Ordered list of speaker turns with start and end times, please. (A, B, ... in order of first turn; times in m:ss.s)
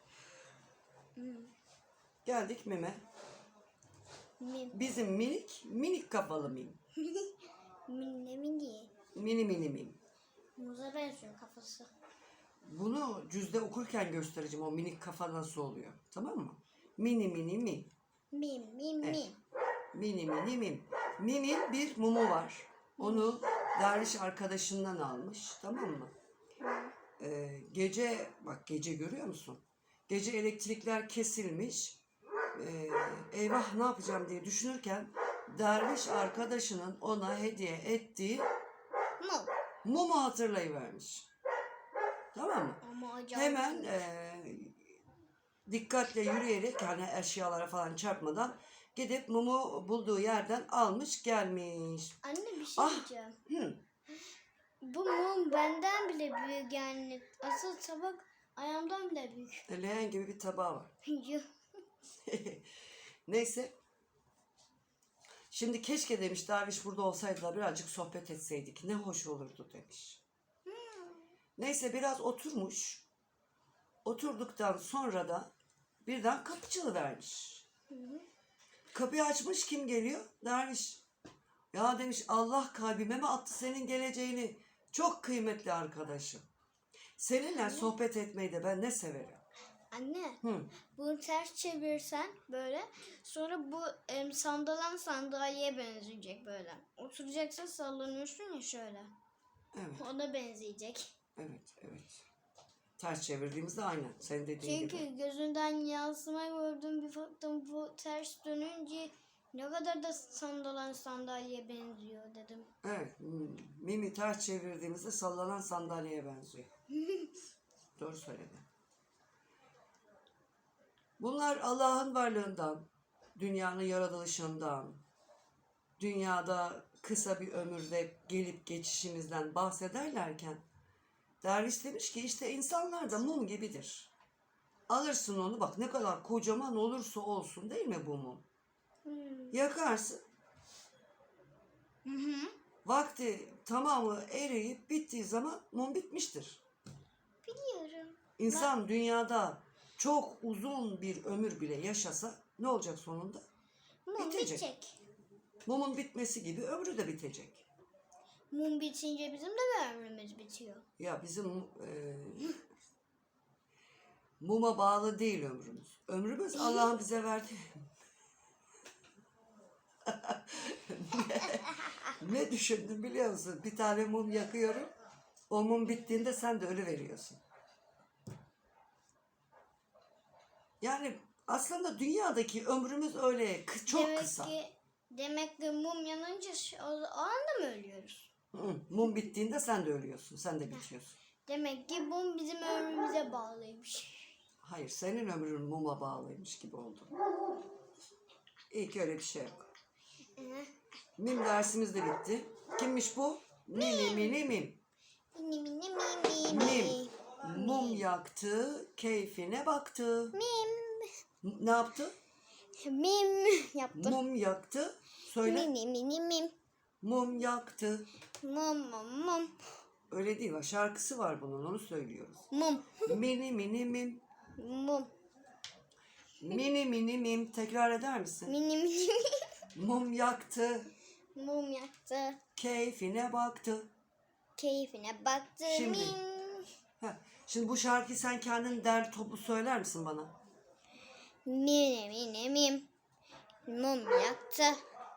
0:01.2-0:01.5 A
0:02.2-0:03.0 B
0:04.4-0:04.8 A
0:04.7-0:06.8 B
0:07.0-0:07.3 A
0:07.9-0:08.9 A
0:09.1-0:10.0 B
0:10.6-0:11.9 A
0:12.6-0:17.9 B
0:18.3-0:19.4 A
0:19.9-0:26.1 B
0:23.0-0:23.4 A
0:26.6-0:26.9 A
0:27.2-0:32.0 B
0:32.5-0:38.4 B
0:39.2-0:39.5 A
0:39.8-0:41.3 B
0:42.3-0:42.8 B
0:42.8-0:44.0 A
0:43.3-0:44.8 B
0:45.7-0:52.2 B
0:52.2-0:53.4 A
0:52.8-0:53.8 B
0:54.8-0:59.6 A
0:59.7-1:00.9 B
1:01.0-1:01.4 A
1:02.2-1:02.6 B
1:03.3-1:03.7 B
1:05.5-1:10.2 B
1:10.6-1:11.3 A
1:11.6-1:13.0 B
1:14.0-1:15.5 B
1:16.0-1:17.6 B
1:17.9-1:18.2 A
1:18.9-1:21.0 B
1:21.7-1:26.4 B
1:27.2-1:29.4 B
1:27.5-1:27.9 A
1:29.9-1:30.4 A
1:30.4-1:30.7 B
1:30.9-1:39.1 A
1:39.7-1:40.0 B
1:40.0-1:41.1 A
1:41.4-1:42.2 B
1:43.0-1:45.0 B
1:44.6-1:52.7 A
1:52.8-1:56.7 B
1:58.0-1:58.6 B
2:01.2-2:05.0 B
2:06.0-2:10.6 B
2:11.4-2:14.1 B
2:14.9-2:18.4 B
2:19.0-2:19.6 A
2:19.5-2:20.2 B
2:22.0-2:22.5 A
2:22.8-2:26.6 B
2:27.4-2:28.7 A
2:28.4-2:33.4 B
2:34.0-2:35.0 A
2:34.2-2:34.6 B
2:35.6-2:37.6 B
2:38.5-2:40.8 A
2:41.0-2:42.6 B
2:44.4-2:47.6 B
2:46.5-2:46.9 A
2:50.0-2:54.9 B
2:55.5-2:57.4 B
3:00.8-3:04.5 B
3:03.9-3:08.3 A
3:08.5-3:11.2 B
3:11.4-3:14.3 A
3:14.6-3:17.1 B
3:18.7-3:19.7 B
3:20.4-3:20.7 A
3:21.2-3:24.8 B
3:23.7-3:24.4 A
3:25.3-3:28.0 A
3:26.5-3:30.3 B
3:30.3-3:31.1 A
3:31.4-3:32.1 B
3:32.8-3:34.2 A
3:33.9-3:35.7 B
3:35.4-3:36.5 A
3:37.0-3:38.1 B
3:38.4-3:39.6 A
3:40.1-3:42.5 B
3:42.5-3:43.2 A
3:43.0-3:44.2 B
3:44.6-3:45.1 A
3:46.4-3:48.5 B
3:48.5-3:49.3 A
3:49.7-3:50.9 B
3:51.3-3:52.4 A
3:52.6-3:53.9 B
3:54.6-3:56.7 A
3:55.6-3:56.2 B
3:57.0-4:00.3 B
4:01.4-4:02.9 A
4:03.7-4:04.8 A